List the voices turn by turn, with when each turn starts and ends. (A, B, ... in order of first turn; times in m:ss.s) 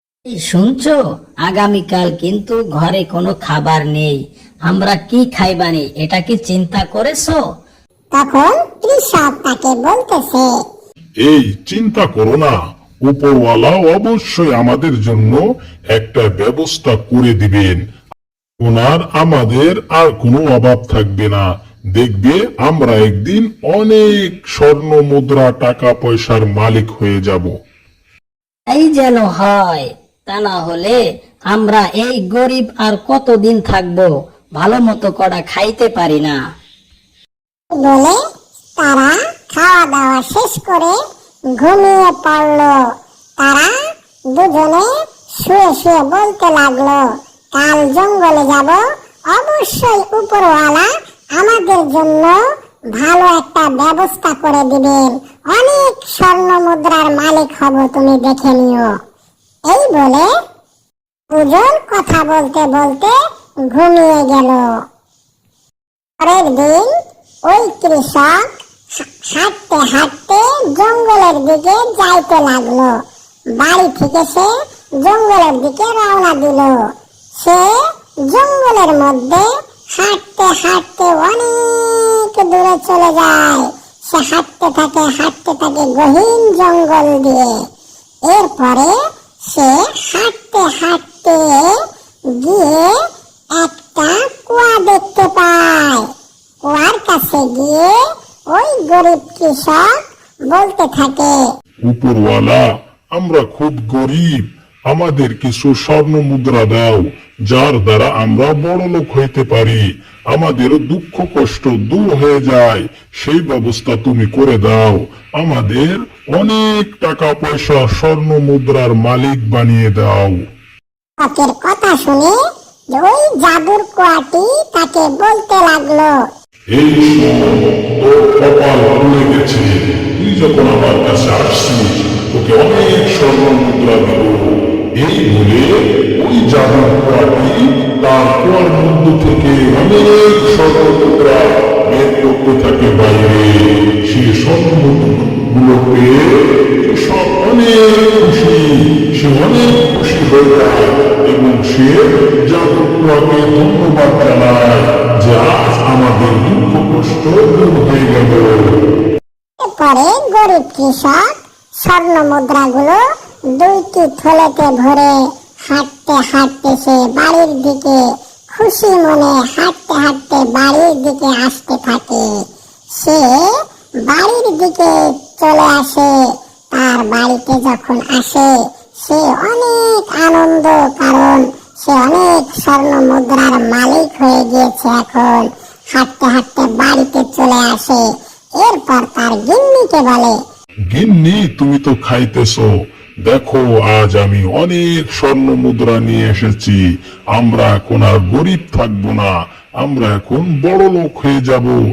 0:00.3-0:07.4 A
0:08.1-0:10.5 B
0:11.2-0:17.8 C
0:18.6-0:21.4 C
0:22.0-0:27.5 C
0:28.7-0:36.4 A
0:37.7-0:38.2 B
0:38.8-0:41.0 B
0:41.5-0:42.8 B
0:43.4-0:43.8 B
0:44.3-0:52.4 B
0:52.9-0:58.9 B
0:59.6-1:00.3 B
1:01.3-1:04.8 B
1:06.2-1:06.9 B
1:07.4-1:16.8 B
1:17.4-1:27.5 B
1:28.2-1:31.7 B
1:32.3-1:33.0 B
1:33.5-1:36.1 B
1:36.6-1:38.0 B
1:38.5-1:41.4 B
1:41.8-2:00.4 C
2:01.2-2:02.4 B
2:02.9-2:06.2 B
2:06.7-2:38.7 C
2:39.6-2:41.3 B
2:41.8-2:43.0 B
2:43.5-2:52.4 B
2:52.9-2:53.5 B
2:54.0-3:10.4 B
3:10.9-3:12.7 C
3:13.2-3:16.8 C
3:17.3-3:21.8 C